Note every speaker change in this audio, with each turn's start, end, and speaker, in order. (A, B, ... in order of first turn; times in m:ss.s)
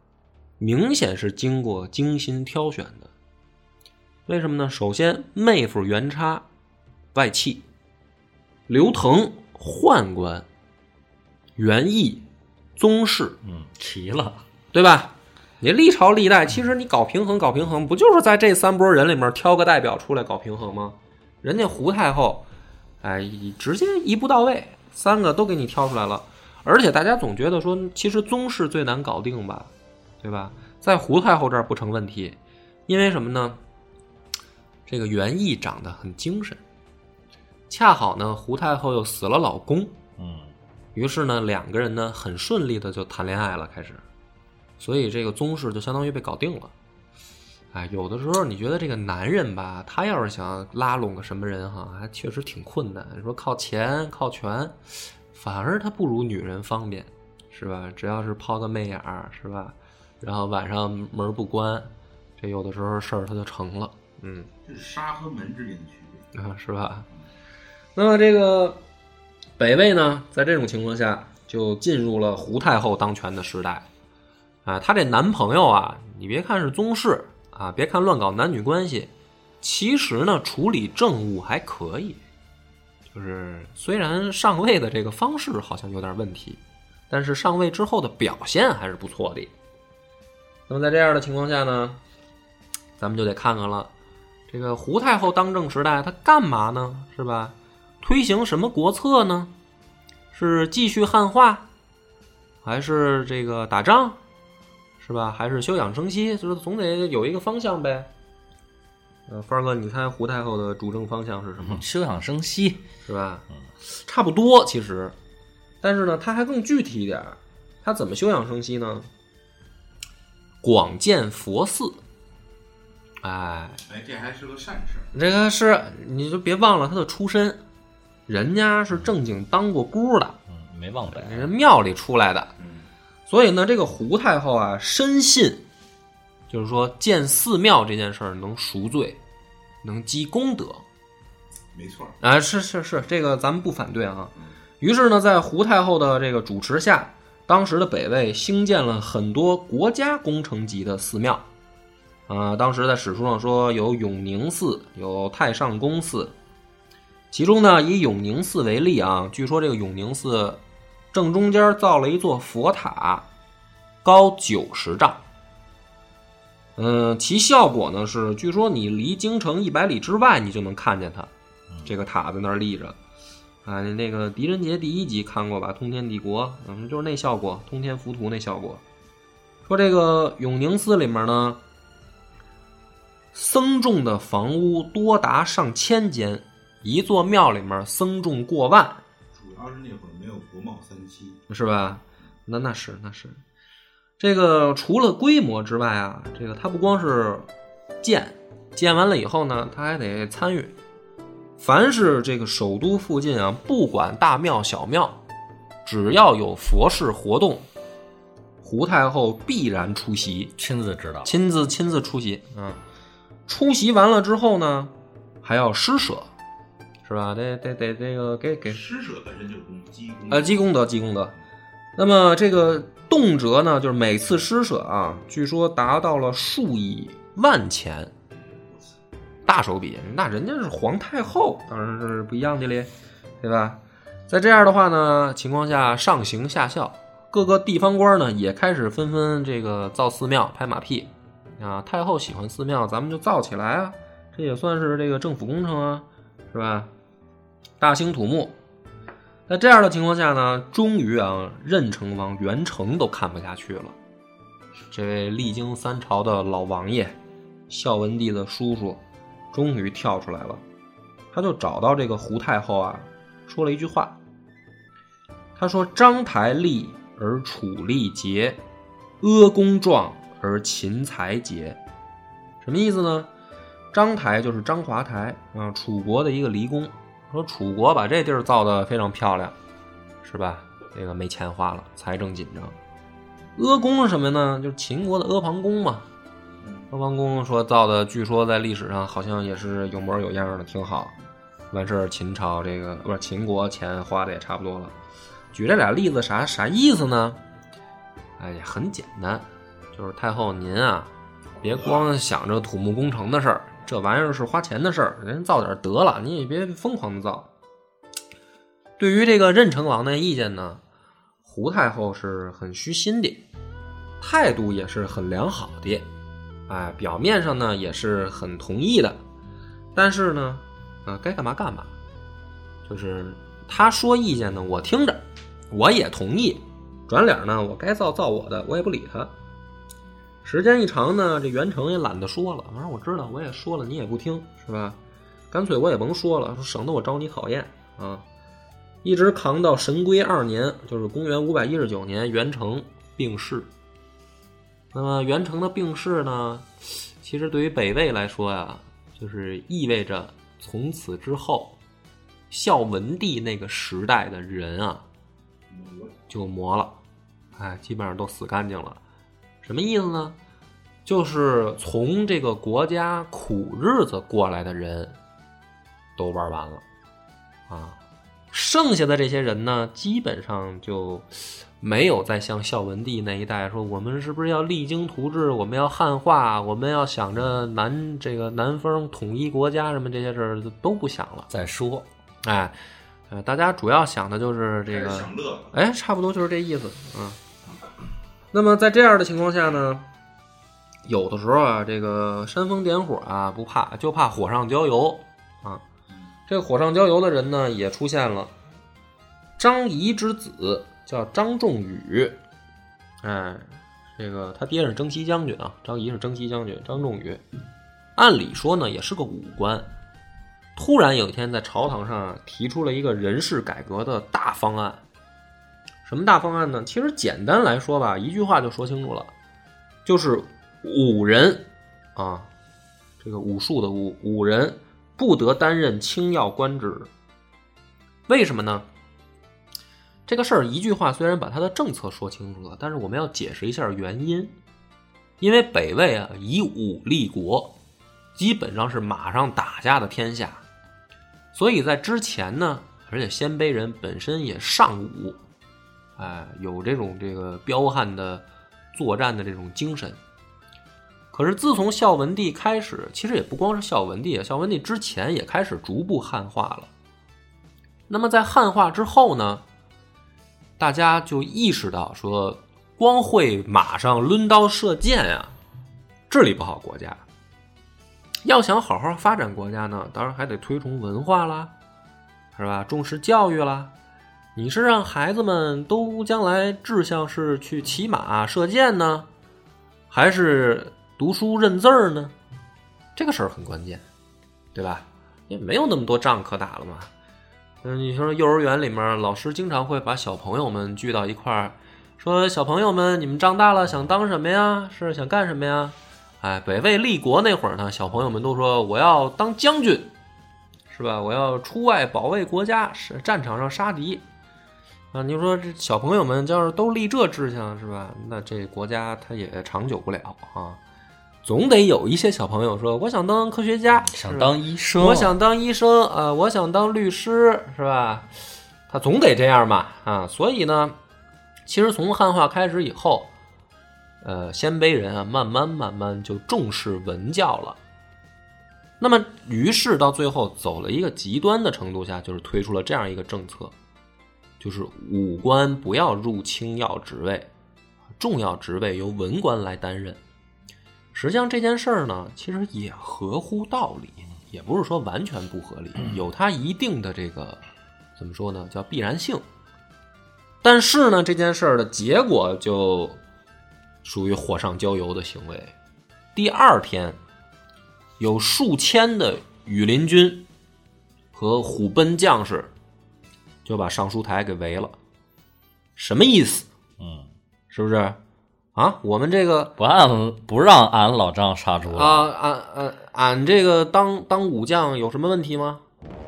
0:00.6-0:03.1 A
0:04.3-0:06.4 A
0:07.1-0:07.6 A
0:08.7-0:10.5 A
0:11.6-0:12.2 A
0:12.8-0:13.4 A
0:13.4-0:14.4 B
0:14.7-0:22.5 A
0:23.0-0:33.6 A
0:34.9-0:36.6 A
0:37.7-0:40.0 A
0:40.2-0:40.5 B
0:41.0-0:44.0 A
0:44.8-0:46.7 A
0:47.7-1:04.5 A
1:04.7-1:06.3 C
1:06.3-1:07.1 A
1:08.0-1:08.8 A
1:09.6-1:13.9 A
1:14.6-1:22.2 A
1:23.1-1:29.5 A
1:30.7-1:32.0 A
1:33.0-1:33.9 A
1:34.5-1:39.5 A
1:40.3-1:41.7 A
1:42.6-1:44.2 A
1:45.0-1:48.1 A
1:49.3-1:51.8 A
1:51.6-1:52.8 B
1:53.1-1:55.2 A
1:55.8-1:59.1 A
2:00.6-2:02.0 A
2:03.2-2:03.8 A
2:03.9-2:05.1 C
2:05.1-2:07.6 A
2:08.3-2:10.4 A
2:10.5-2:11.5 B
2:11.1-2:12.5 A
2:12.6-2:12.8 C
2:13.3-2:15.6 A
2:16.5-2:19.2 A
2:19.8-2:20.8 A
2:21.7-2:22.2 C
2:22.2-2:31.4 A
2:32.3-2:36.3 A
2:37.3-2:40.6 A
2:41.1-2:43.3 A
2:44.0-2:45.2 A
2:46.8-2:51.3 A
2:51.8-2:53.0 A
2:53.6-2:58.8 A
2:59.7-3:01.6 A
3:03.3-3:09.0 A
3:09.3-3:11.4 C
3:11.5-3:13.4 A
3:14.2-3:17.5 A
3:18.0-3:20.7 A
3:21.6-3:25.2 A
3:25.8-3:27.7 A
3:28.6-3:30.5 A
3:30.6-3:31.3 B
3:31.2-3:32.8 A
3:33.5-3:36.3 A
3:37.0-3:38.8 A
3:38.7-3:40.7 C
3:40.3-3:41.3 A
3:42.0-3:48.1 A
3:49.5-3:52.9 A
3:53.4-4:06.9 A
4:07.8-4:08.5 A
4:09.5-4:14.0 A
4:14.9-4:17.2 A
4:17.7-4:19.0 A
4:19.5-4:20.6 A
4:21.3-4:24.2 A
4:25.6-4:28.6 A
4:29.2-4:31.8 A
4:32.6-4:33.3 A
4:33.9-4:39.6 A
4:40.2-4:42.8 A
4:43.6-4:46.1 A
4:46.9-4:51.1 A
4:51.7-4:54.9 A
4:55.5-4:57.4 A
4:58.4-5:01.1 A
5:01.6-5:07.5 A
5:09.0-5:10.8 A
5:11.4-5:13.4 A
5:14.2-5:16.1 A
5:16.7-5:19.2 A
5:20.0-5:21.9 A
5:22.9-5:29.3 A
5:30.4-5:35.0 A
5:35.5-5:38.2 A
5:39.0-5:43.7 A
5:44.9-5:51.8 A
5:52.5-5:55.0 A
5:55.7-5:56.0 C
5:56.3-5:57.0 A
5:57.6-5:59.0 A
5:59.6-6:00.4 A
6:01.1-6:05.2 A
6:06.2-6:06.8 A
6:07.7-6:08.0 A
6:08.5-6:21.5 A
6:21.5-6:22.0 B
6:22.4-6:22.8 A
6:23.3-6:27.4 A
6:24.9-6:25.7 C
6:28.5-6:30.1 A
6:31.0-6:35.8 A
6:36.5-6:38.5 A
6:39.6-6:42.4 A
6:43.2-6:47.4 A
6:48.2-6:49.9 A
6:50.8-6:55.0 A
6:56.0-6:59.3 A
7:00.0-7:02.5 A
7:03.2-7:07.1 A
7:08.3-7:08.9 A
7:10.3-7:14.5 A
7:15.4-7:17.7 A
7:18.4-7:20.6 A
7:21.5-7:25.4 A
7:26.2-7:30.2 A
7:31.3-7:36.9 A
7:38.1-7:39.6 A
7:40.8-7:45.6 A
7:46.3-7:47.2 A
7:48.4-7:51.7 A
7:52.6-7:53.9 A
7:54.6-7:59.3 A
8:00.1-8:02.3 A
8:03.2-8:04.0 A
8:04.8-8:07.1 A
8:07.8-8:20.1 A
8:20.9-8:24.2 A
8:25.1-8:30.8 A
8:31.4-8:38.3 A
8:34.1-8:35.3 B
8:38.9-8:41.0 A
8:41.7-8:43.3 A
8:44.2-8:47.8 A
8:49.0-8:53.7 A
8:54.6-8:57.5 A
8:58.2-9:00.2 A
9:01.1-9:07.6 A
9:08.2-9:09.4 A
9:10.6-9:13.2 A
9:14.0-9:15.7 A
9:16.4-9:17.2 A
9:18.2-9:20.4 A
9:21.3-9:22.7 A
9:23.6-9:25.0 A
9:26.0-9:26.7 A
9:27.0-9:27.3 B
9:27.7-9:28.2 A
9:28.8-9:29.7 A
9:29.8-9:32.2 B
9:31.9-9:35.8 A